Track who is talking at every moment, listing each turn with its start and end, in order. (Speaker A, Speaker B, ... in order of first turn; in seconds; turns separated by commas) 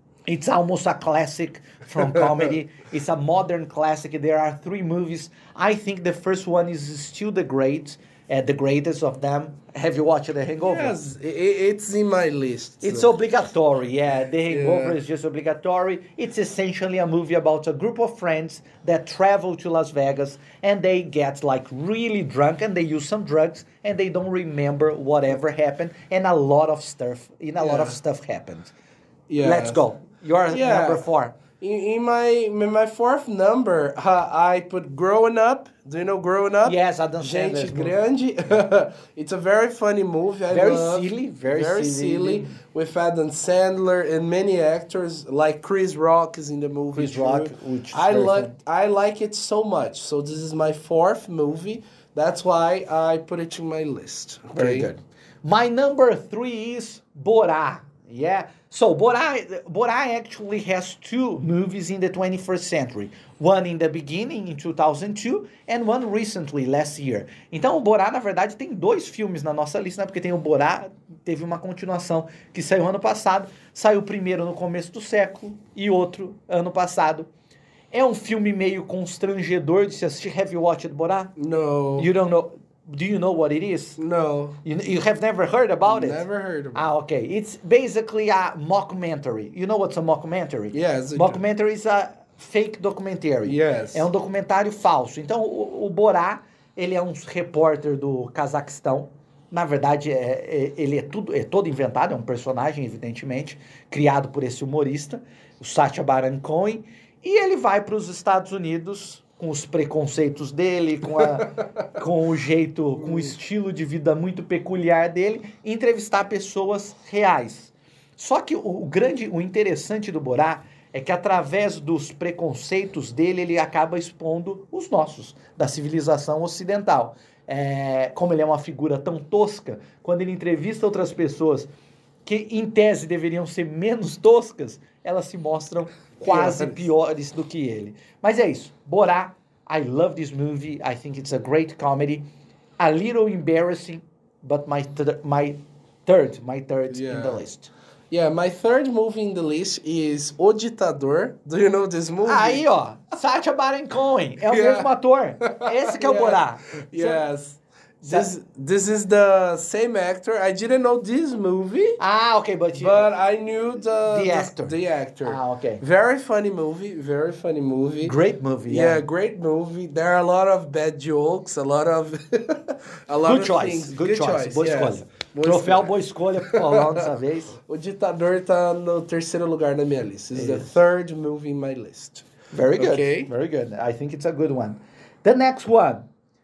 Speaker A: 0.3-10.9, Speaker B: 10.6-13.1, Speaker A: 12.8-28.7, Speaker B: 14.5-15.0, Speaker B: 27.6-28.0, Speaker B: 29.3-29.8, Speaker A: 29.4-31.4, Speaker B: 30.5-31.1, Speaker B: 31.6-54.9, Speaker A: 36.6-38.0, Speaker A: 40.5-42.6, Speaker A: 46.9-48.5, Speaker A: 54.5-77.3, Speaker A: 77.9-81.3, Speaker B: 81.4-82.1, Speaker A: 82.0-84.0, Speaker B: 84.0-84.6, Speaker A: 84.6-131.7, Speaker B: 85.9-86.9, Speaker B: 90.7-91.4, Speaker B: 93.5-94.1, Speaker A: 132.3-142.2, Speaker B: 136.2-136.9, Speaker A: 142.8-147.7, Speaker B: 146.9-147.4, Speaker B: 148.1-152.6, Speaker A: 152.2-157.2, Speaker B: 154.5-154.9, Speaker B: 155.4-162.0, Speaker A: 158.0-158.3, Speaker A: 162.0-163.1, Speaker B: 162.7-168.2, Speaker A: 164.1-165.8, Speaker A: 168.0-169.1, Speaker B: 168.7-177.1, Speaker A: 173.2-177.6, Speaker B: 177.6-183.3, Speaker A: 180.3-180.7, Speaker A: 182.5-186.1